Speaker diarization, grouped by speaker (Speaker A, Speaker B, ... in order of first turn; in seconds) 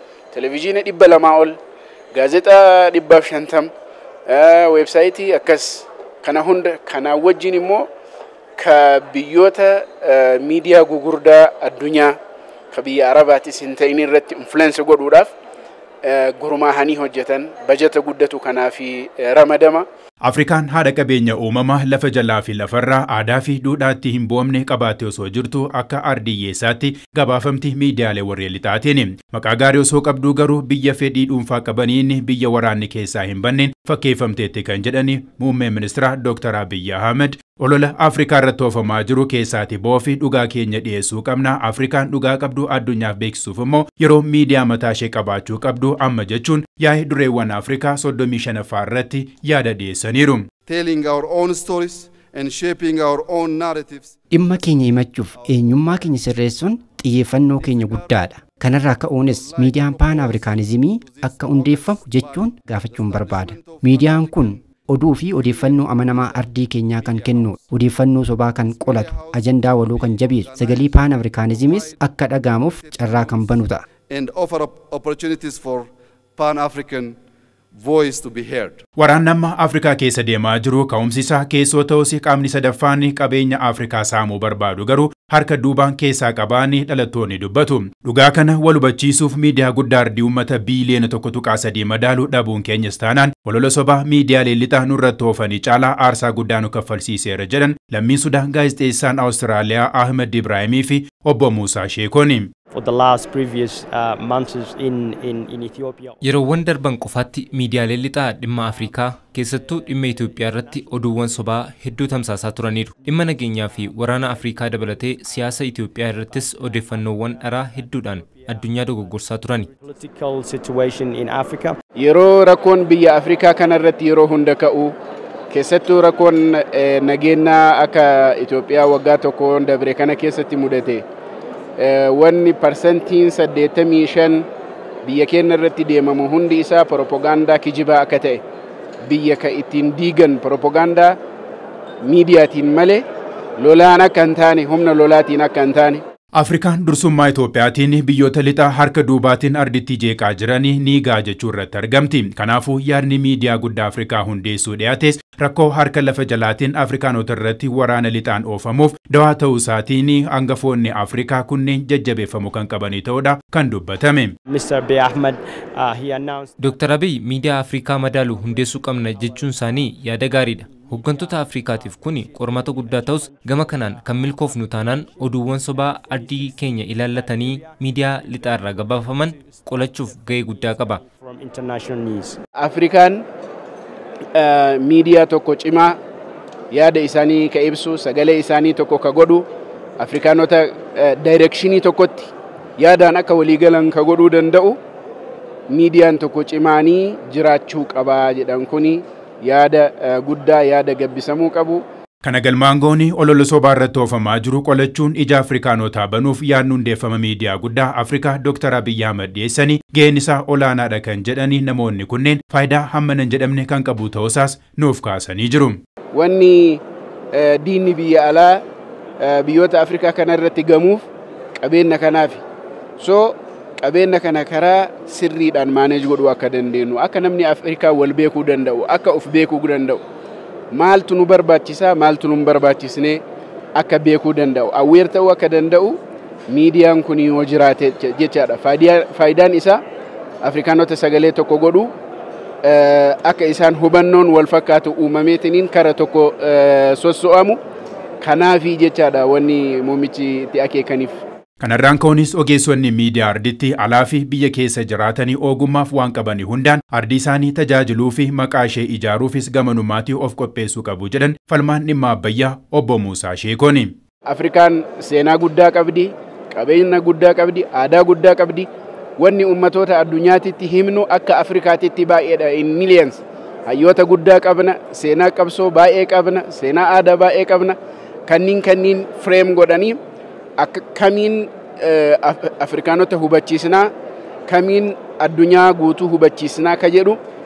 Speaker A: 0.3-1.6, 2.1-3.7, 4.3-7.9, 8.6-12.2, 12.7-15.3, 16.0-19.9, 122.0-125.0, 125.5-131.0, 131.8-134.5, 135.0-138.4, 139.1-141.2, 142.0-143.0, 143.6-146.0, 182.6-183.2, 184.3-186.0, 186.7-189.5, 190.0-194.8, 195.7-201.8, 216.1-216.8, 217.3-218.6, 219.2-221.1, 221.6-222.4, 223.0-230.0, 230.7-233.2, 233.8-239.8, 240.4-241.9, 242.6-247.6, 248.2-251.1, 264.3-268.7, 269.2-277.8, 278.3-280.0, 280.6-283.9, 284.5-287.2
Speaker B: 20.2-50.5, 79.0-102.5, 146.4-164.3, 202.2-215.8, 251.6-263.9
Speaker C: 50.7-54.2, 55.4-56.3, 57.5-58.3, 59.3-64.6, 65.3-67.6, 68.5-77.2, 77.7-78.8
Speaker D: 54.3-73.8
Speaker E: 102.7-106.2, 108.7-111.6, 112.8-115.6, 116.2-121.8, 164.5-166.8, 168.3-169.8, 170.4-182.4
Speaker F: 106.2-119.7, 166.6-181.0